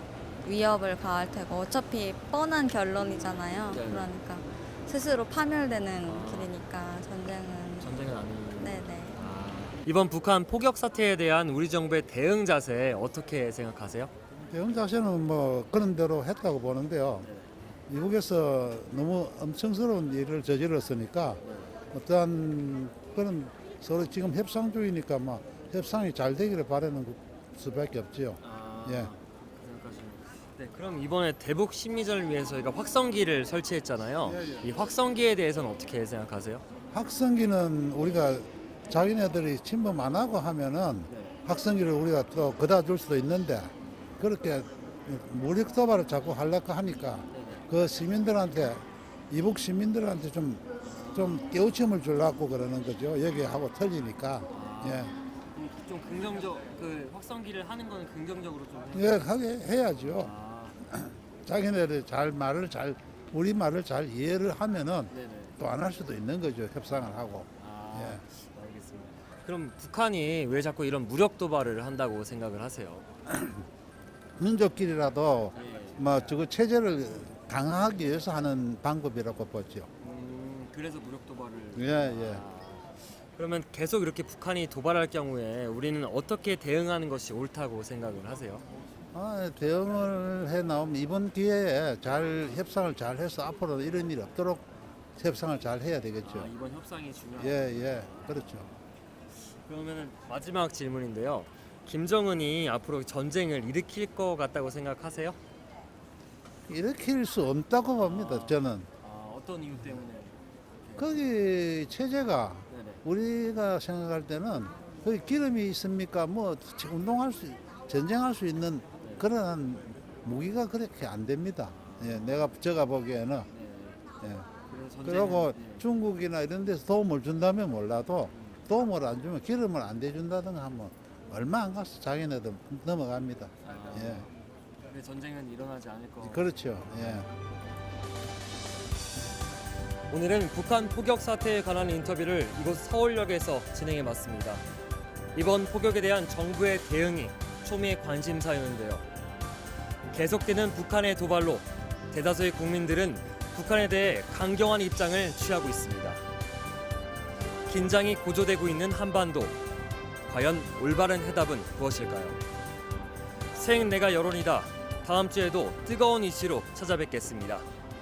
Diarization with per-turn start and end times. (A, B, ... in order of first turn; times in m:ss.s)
0:00.4-0:07.9 A
0:03.7-0:04.1 B
0:06.0-0:06.5 B
0:07.8-0:14.1 B
0:08.6-0:09.2 A
0:14.3-0:17.3 C
0:17.2-0:17.7 B
0:17.9-0:29.1 C
0:21.4-0:21.7 B
0:28.4-0:36.6 B
0:34.2-0:34.6 C
0:36.9-0:55.1 C
0:41.1-0:41.4 B
0:43.8-0:44.1 B
0:47.3-0:47.6 B
0:50.8-0:51.4 B
0:54.5-0:59.3 B
0:58.9-1:00.3 C
0:59.9-1:00.8 B
1:00.9-1:08.2 C
1:05.1-1:05.6 B
1:06.9-1:13.0 B
1:13.3-1:13.6 C
1:14.4-1:19.9 C
1:15.5-1:16.4 B
1:20.0-1:28.6 B
1:21.7-1:22.4 C
1:29.1-1:34.6 C
1:35.2-1:36.5 C
1:36.2-1:38.8 B
1:37.4-1:38.6 C
1:39.4-1:45.4 B
1:46.7-1:48.9 C
1:48.0-1:51.2 B
1:51.0-2:03.5 C
1:52.7-1:53.0 B
2:01.7-2:02.5 B
2:03.5-2:04.0 B
2:04.2-2:04.5 C
2:04.7-2:05.8 B
2:05.0-2:14.3 C
2:08.3-2:08.6 B
2:13.6-2:14.3 B
2:14.9-2:17.2 B
2:16.2-2:17.3 C
2:20.1-2:24.6 B
2:25.3-2:29.0 B
2:30.1-2:36.2 B
2:37.7-2:39.6 B
2:40.3-2:42.4 B
2:43.5-2:47.7 B